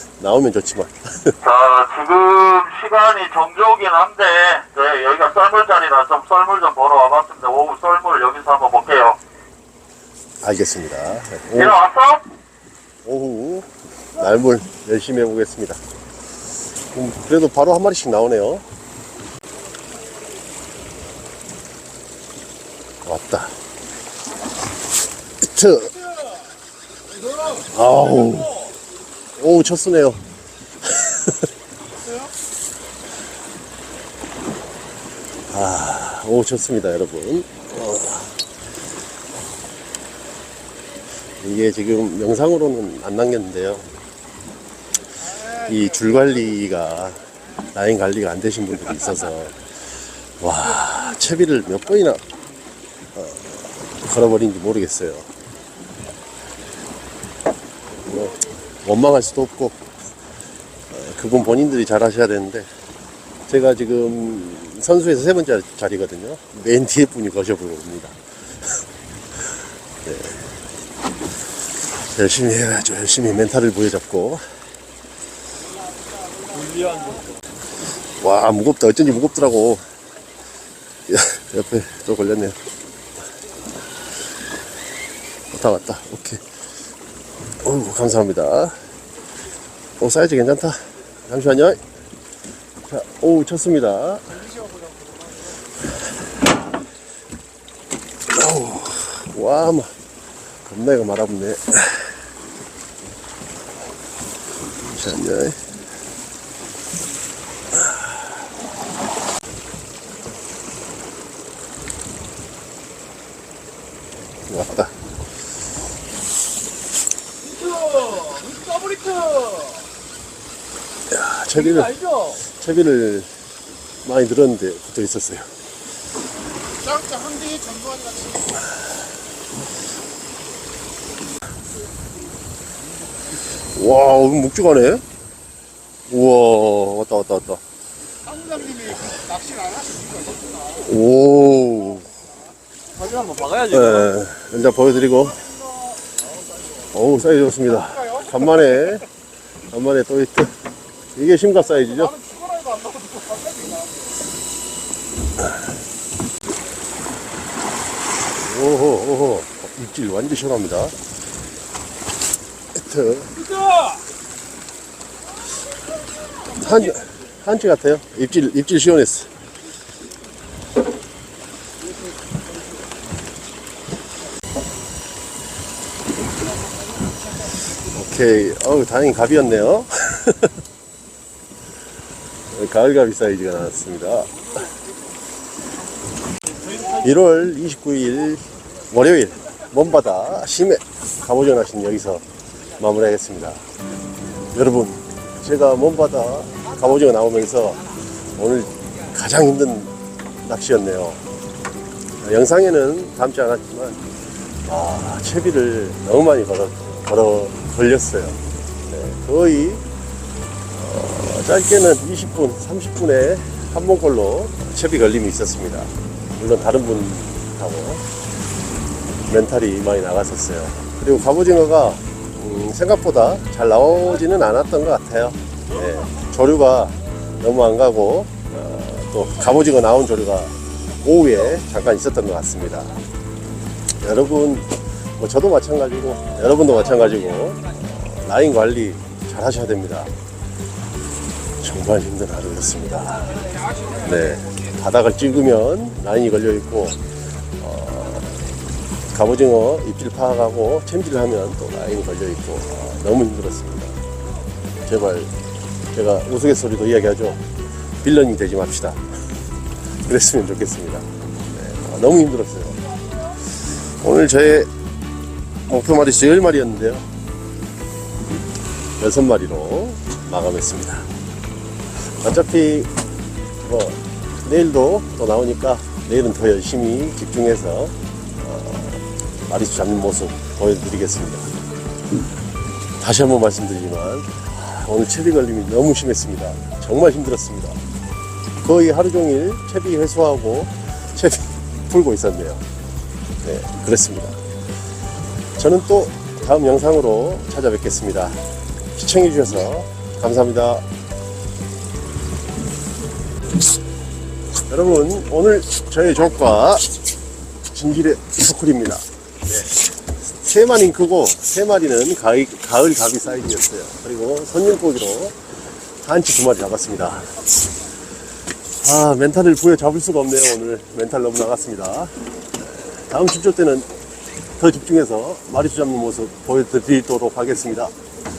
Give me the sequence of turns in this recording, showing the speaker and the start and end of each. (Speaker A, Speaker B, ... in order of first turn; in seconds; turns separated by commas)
Speaker A: 0.2-1.4, Speaker B: 1.4-9.2, Speaker A: 10.4-11.8, Speaker B: 11.6-12.2, Speaker A: 13.0-15.8, Speaker A: 16.9-18.6, Speaker A: 23.0-23.6, Speaker A: 25.4-26.0, Speaker A: 27.5-28.7, Speaker A: 29.4-30.2, Speaker A: 30.8-31.3, Speaker A: 35.5-38.4, Speaker A: 41.4-43.9, Speaker A: 45.4-49.6, Speaker A: 50.4-52.2, Speaker A: 53.1-55.3, Speaker A: 58.0-59.8, Speaker A: 60.9-62.7, Speaker A: 63.5-68.2, Speaker A: 70.0-70.4, Speaker A: 72.1-74.4, Speaker C: 76.6-77.2, Speaker A: 78.2-79.8, Speaker A: 81.1-82.5, Speaker A: 85.5-86.4, Speaker A: 87.6-88.8, Speaker A: 90.0-91.8, Speaker A: 92.9-94.4, Speaker A: 98.3-99.9, Speaker A: 100.6-102.1, Speaker A: 104.8-105.6, Speaker A: 114.5-114.9, Speaker C: 117.6-119.7, Speaker A: 121.1-123.3, Speaker A: 124.0-125.5, Speaker C: 126.8-128.3, Speaker A: 133.7-135.0, Speaker A: 136.1-137.6, Speaker A: 138.3-139.3, Speaker C: 139.3-140.6, Speaker A: 140.7-142.1, Speaker C: 142.9-143.6, Speaker A: 143.6-145.6, Speaker A: 146.8-149.1, Speaker A: 149.7-150.5, Speaker A: 151.1-152.3, Speaker C: 152.3-154.0, Speaker A: 158.4-160.9, Speaker A: 162.7-163.9, Speaker A: 166.5-169.3, Speaker A: 177.8-180.5, Speaker A: 182.5-184.5, Speaker A: 186.8-192.2, Speaker A: 192.8-193.6, Speaker A: 194.5-199.9, Speaker A: 200.4-201.2, Speaker A: 202.2-204.0, Speaker A: 204.7-209.8, Speaker A: 210.7-218.0, Speaker A: 219.3-232.9, Speaker A: 234.0-240.1, Speaker A: 241.6-243.4, Speaker A: 243.9-247.0, Speaker A: 247.6-248.5, Speaker A: 249.1-254.0, Speaker A: 254.8-255.3, Speaker A: 255.9-257.4, Speaker A: 258.0-259.0, Speaker A: 260.0-262.8, Speaker A: 263.5-264.7, Speaker A: 265.7-267.0, Speaker A: 269.0-271.1, Speaker A: 272.2-272.9, Speaker A: 273.6-281.5, Speaker A: 283.0-287.8, Speaker A: 288.6-292.6, Speaker A: 293.4-294.4, Speaker A: 295.6-298.4, Speaker A: 298.9-300.8, Speaker A: 304.7-306.9, Speaker A: 307.7-315.4, Speaker A: 316.0-317.3, Speaker A: 318.8-322.1, Speaker A: 322.9-323.9, Speaker A: 324.6-327.9